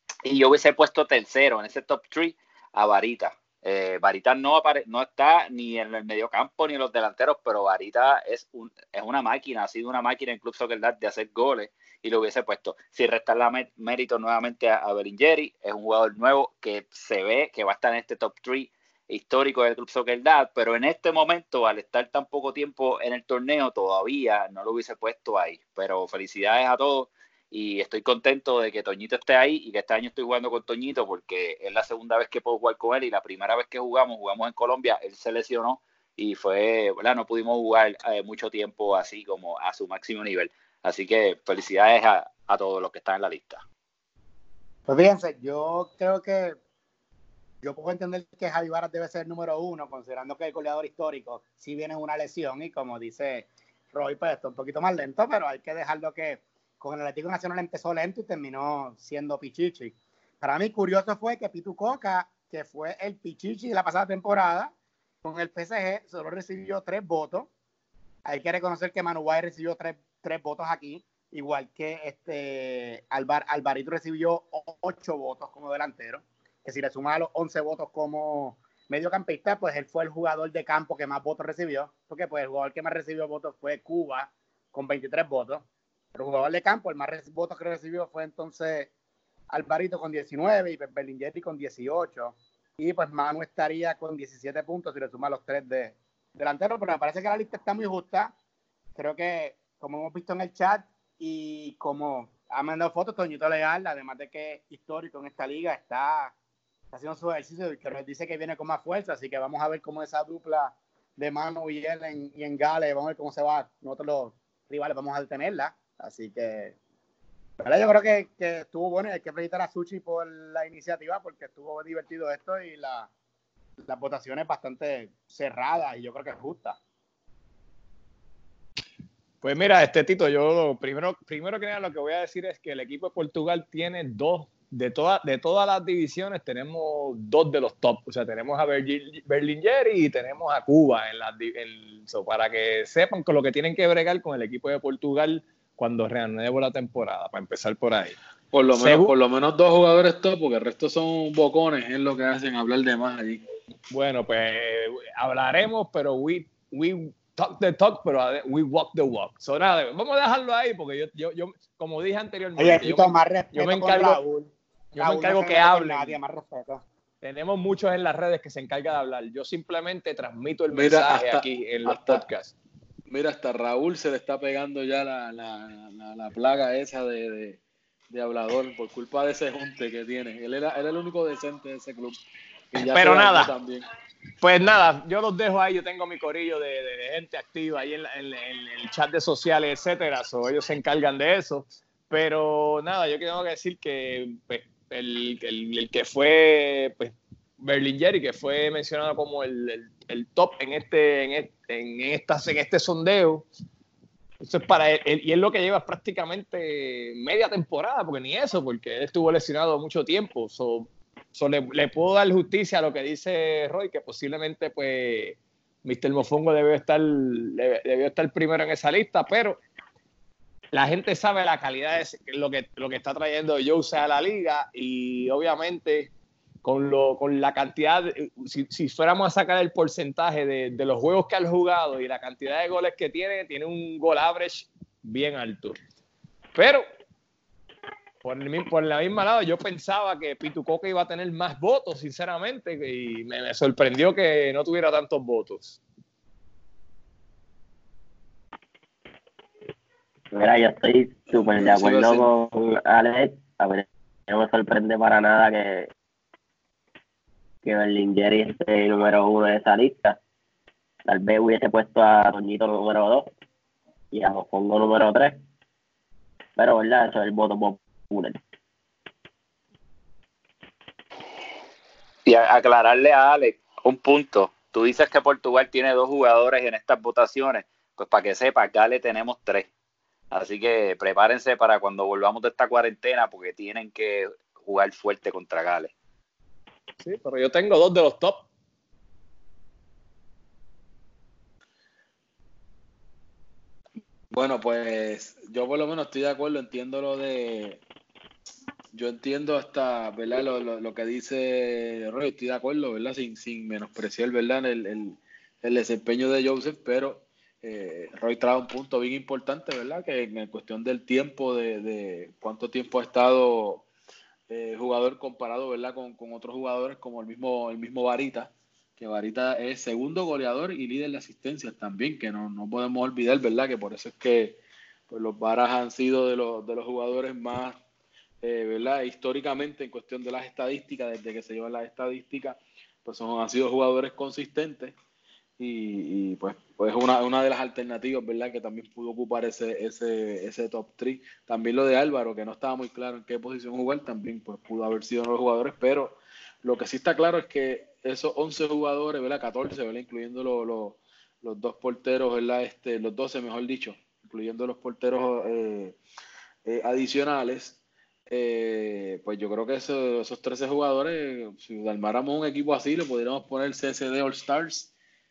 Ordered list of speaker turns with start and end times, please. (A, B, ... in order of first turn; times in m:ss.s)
0:00.2-0:43.6 A
0:44.9-0:46.6 B
0:47.6-1:04.7 B
1:05.2-1:07.5 B
1:08.2-1:28.9 B
1:29.5-1:38.3 B
1:39.0-1:46.3 B
1:46.9-1:56.8 B
1:57.6-2:03.1 B
2:03.9-2:06.8 B
2:09.4-2:28.2 C
2:28.5-2:33.4 D
2:28.7-2:29.1 C
2:33.9-2:44.2 C
2:42.6-2:46.8 B
2:44.9-2:46.2 C
2:47.2-2:52.5 C
2:50.7-2:52.2 D
2:53.1-3:02.2 D
3:02.7-3:03.8 D
3:02.8-3:03.5 C
3:04.4-3:23.4 C
3:24.4-3:39.6 C
3:40.7-3:46.1 C
3:46.6-3:55.8 C
3:56.5-3:56.8 C
3:58.2-4:05.8 C
4:10.3-4:15.9 E
4:11.3-4:12.3 D
4:17.6-4:20.2 E
4:21.0-4:23.3 E
4:24.1-4:25.4 E
4:26.6-4:28.4 E
4:32.2-4:39.7 A
4:40.3-4:45.9 A
4:47.0-4:48.5 C
4:54.3-4:57.8 D
4:58.9-5:13.9 D
5:14.5-5:27.8 D
5:28.4-5:34.9 D
5:35.6-5:56.0 D
5:56.6-6:04.9 D